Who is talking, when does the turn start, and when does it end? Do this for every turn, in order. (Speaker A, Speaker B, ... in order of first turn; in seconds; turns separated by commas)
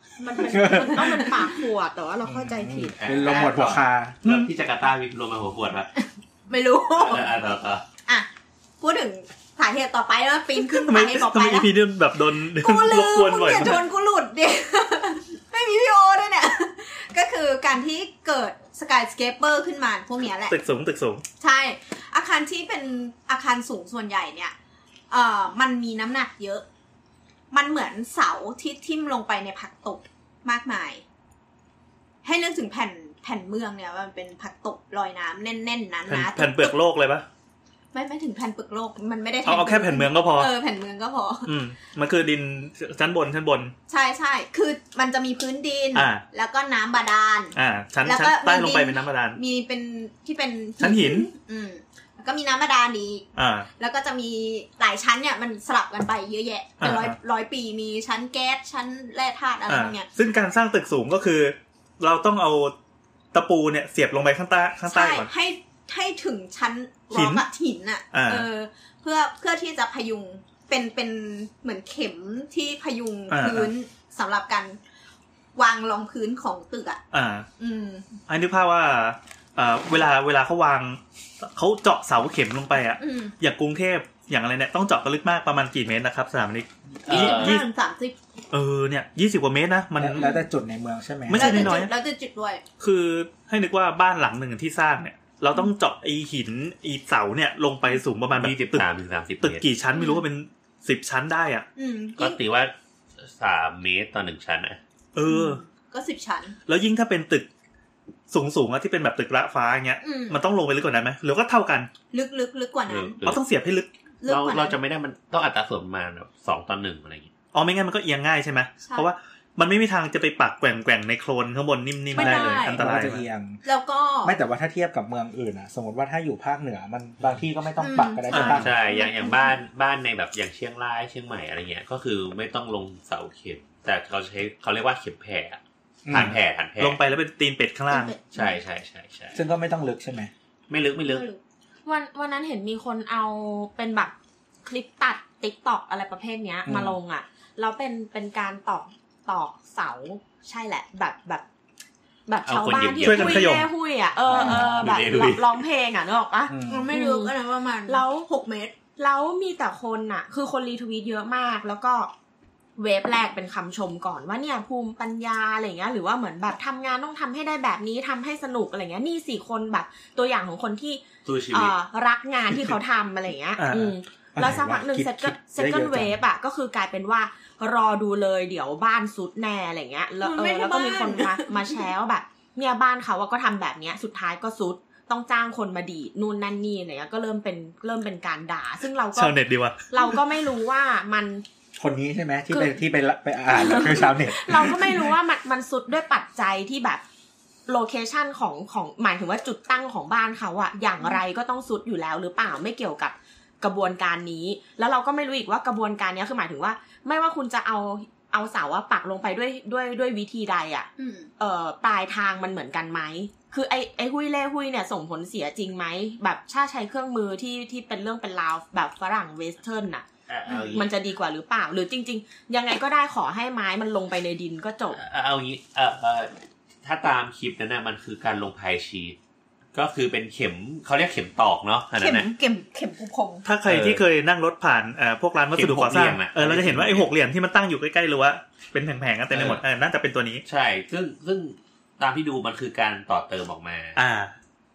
Speaker A: 0.2-3.0, Speaker B: 0.5-1.3, Speaker C: 1.0-1.3, Speaker B: 2.2-4.3, Speaker D: 3.0-5.9, Speaker C: 6.0-7.3, Speaker D: 7.0-7.8, Speaker C: 8.8-11.7, Speaker E: 10.6-13.8, Speaker C: 12.5-20.5, Speaker E: 20.5-21.2, Speaker C: 21.4-24.5, Speaker C: 25.1-26.6, Speaker C: 27.5-31.0, Speaker C: 32.2-36.7, Speaker E: 36.1-37.2, Speaker C: 37.9-41.5, Speaker E: 39.4-40.5, Speaker E: 41.5-43.7, Speaker C: 43.9-60.0, Speaker E: 45.9-46.2, Speaker E: 47.5-49.4, Speaker E: 50.8-51.3, Speaker E: 53.4-53.7, Speaker E: 56.8-57.1, Speaker E: 59.7-62.7, Speaker E: 63.3-65.3, Speaker C: 64.8-74.8, Speaker E: 67.1-67.4, Speaker E: 68.1-68.5, Speaker E: 73.3-73.7, Speaker C: 75.5-77.0, Speaker E: 77.1-77.5, Speaker C: 77.6-78.1, Speaker E: 78.3-87.6, Speaker C: 83.0-83.3, Speaker D: 87.0-87.6, Speaker C: 87.1-88.2, Speaker E: 88.5-90.2, Speaker B: 90.0-91.8, Speaker C: 90.2-90.5, Speaker E: 91.3-91.9, Speaker C: 91.3-92.6, Speaker E: 92.8-98.8, Speaker D: 98.3-99.7, Speaker E: 99.4-101.7, Speaker C: 99.9-100.2, Speaker C: 101.8-102.4, Speaker D: 102.2-104.8, Speaker E: 105.1-105.6, Speaker C: 105.3-106.5, Speaker E: 106.7-107.5, Speaker E: 108.3-111.9, Speaker C: 110.0-110.4, Speaker C: 112.1-113.2, Speaker D: 112.9-113.4, Speaker E: 113.2-113.9, Speaker C: 114.2-114.8, Speaker D: 114.2-117.3, Speaker E: 117.5-123.2, Speaker C: 122.1-123.0, Speaker B: 122.1-123.6, Speaker C: 123.6-124.4, Speaker B: 124.2-128.7, Speaker C: 127.8-129.6, Speaker E: 128.3-128.7, Speaker D: 128.5-137.0, Speaker B: 136.0-136.3, Speaker E: 136.1-138.1, Speaker C: 137.9-138.6, Speaker D: 138.3-139.4, Speaker B: 139.3-140.3, Speaker D: 140.7-141.3, Speaker C: 141.1-141.4, Speaker A: 141.8-144.1, Speaker A: 144.6-151.4, Speaker B: 146.7-147.0, Speaker A: 152.3-157.3, Speaker D: 152.4-153.6, Speaker E: 153.0-153.7, Speaker D: 154.3-155.6, Speaker B: 154.3-154.9, Speaker B: 156.5-156.9, Speaker C: 156.7-158.7, Speaker A: 157.8-158.3, Speaker A: 159.0-162.1, Speaker A: 162.8-191.4, Speaker D: 171.2-171.7, Speaker E: 173.6-173.9, Speaker B: 174.3-176.2, Speaker C: 180.2-181.9, Speaker E: 189.1-189.8, Speaker B: 191.8-195.1, Speaker A: 192.5-192.8, Speaker A: 193.5-197.0, Speaker A: 197.7-220.0, Speaker C: 211.0-211.3, Speaker D: 220.3-220.9, Speaker C: 220.5-220.8, Speaker A: 220.6-225.0, Speaker D: 224.9-229.2, Speaker D: 229.7-232.3, Speaker C: 232.0-233.4, Speaker E: 233.4-240.4, Speaker D: 233.6-234.0, Speaker D: 235.5-237.1, Speaker D: 239.3-239.6, Speaker D: 240.4-244.0, Speaker E: 243.9-244.3